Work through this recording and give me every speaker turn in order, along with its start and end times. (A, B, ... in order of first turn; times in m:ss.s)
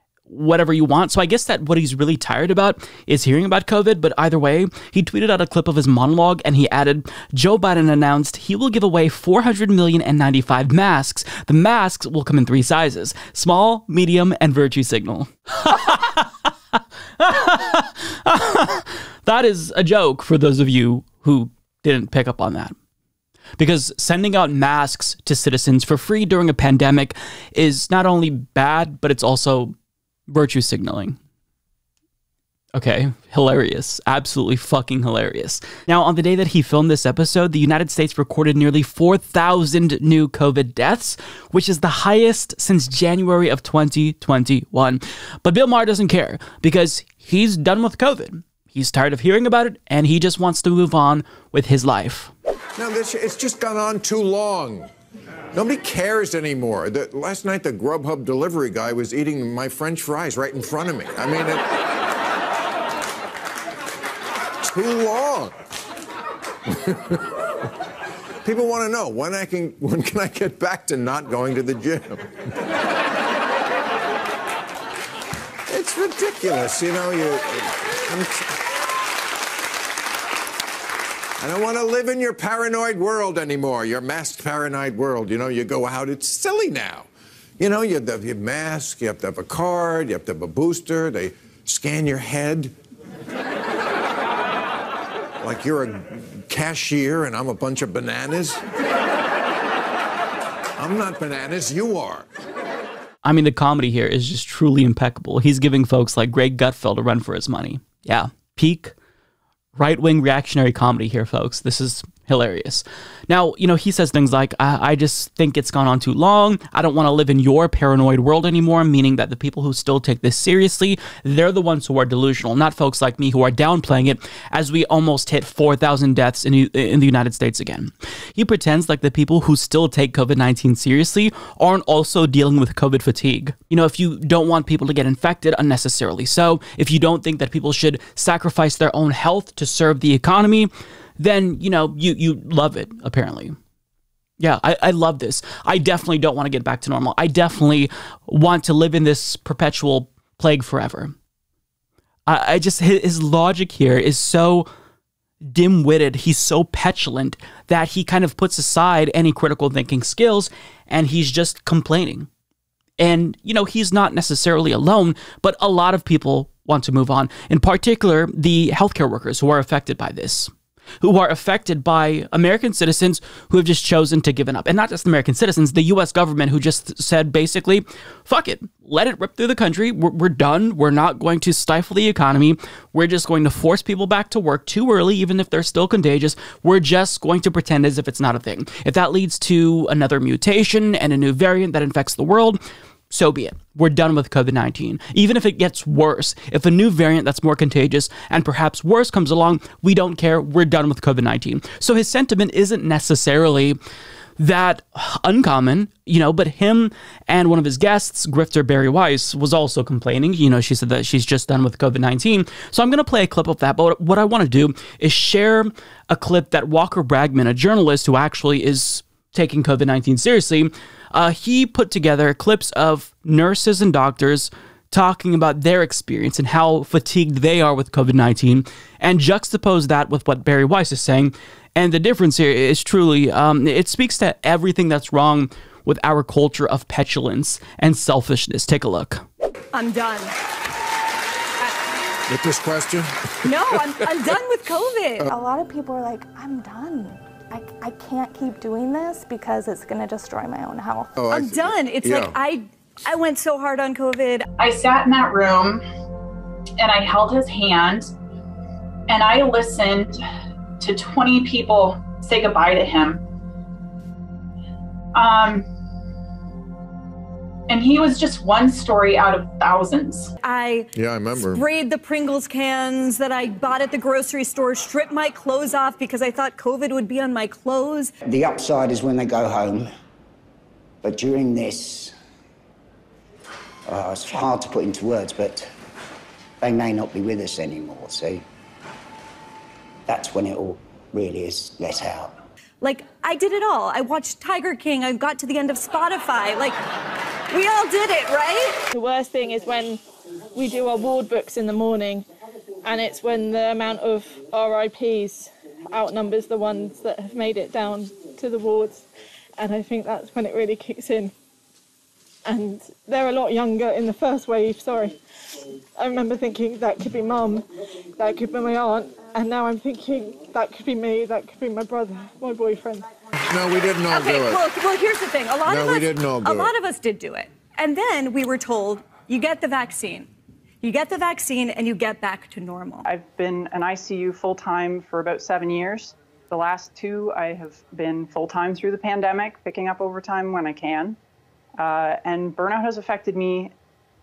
0:00.3-0:16.5 A
0:17.2-0:22.7 A
0:23.6-0:29.7 A
0:30.3-0:31.2 A
0:32.7-0:52.3 A
0:52.8-0:54.9 B
0:55.5-1:01.6 B
1:04.6-1:05.5 B
1:06.7-1:07.2 B
1:08.4-1:12.2 B
1:15.7-1:18.5 B
1:21.4-1:27.1 B
1:27.6-1:32.7 B
1:35.4-1:38.6 B
1:40.8-1:42.2 B
1:43.2-1:48.9 A
1:49.8-2:23.5 A
2:24.4-2:31.1 A
2:32.3-2:34.7 A
2:35.5-2:42.3 A
2:43.0-3:23.8 A
3:24.4-3:59.2 A
3:59.7-4:00.3 C
4:02.3-4:04.0 B
4:03.4-4:05.3 C
4:05.3-4:11.1 D
4:11.2-4:12.4 B
4:11.3-4:14.4 C
4:14.6-4:15.8 E
4:16.8-4:18.1 E
4:19.1-4:20.2 E
4:20.8-4:23.2 E
4:25.1-4:25.7 E
4:27.7-4:30.3 E
4:30.4-4:38.1 C
4:31.0-4:31.6 B
4:38.3-4:39.9 F
4:41.0-4:42.1 F
4:43.8-4:45.7 F
4:46.6-4:48.5 F
4:50.1-4:52.3 F
4:52.8-4:56.8 C
4:57.5-4:58.8 C
4:58.9-5:00.0 G
5:00.5-5:02.2 G
5:02.8-5:09.0 G
5:09.6-5:11.3 G
5:12.4-5:15.1 G
5:16.0-5:17.6 G
5:18.2-5:23.0 G
5:23.5-5:24.6 B
5:24.1-5:30.3 C
5:25.6-5:26.7 B
5:30.8-5:33.0 C
5:33.1-5:41.2 H
5:41.8-5:43.7 H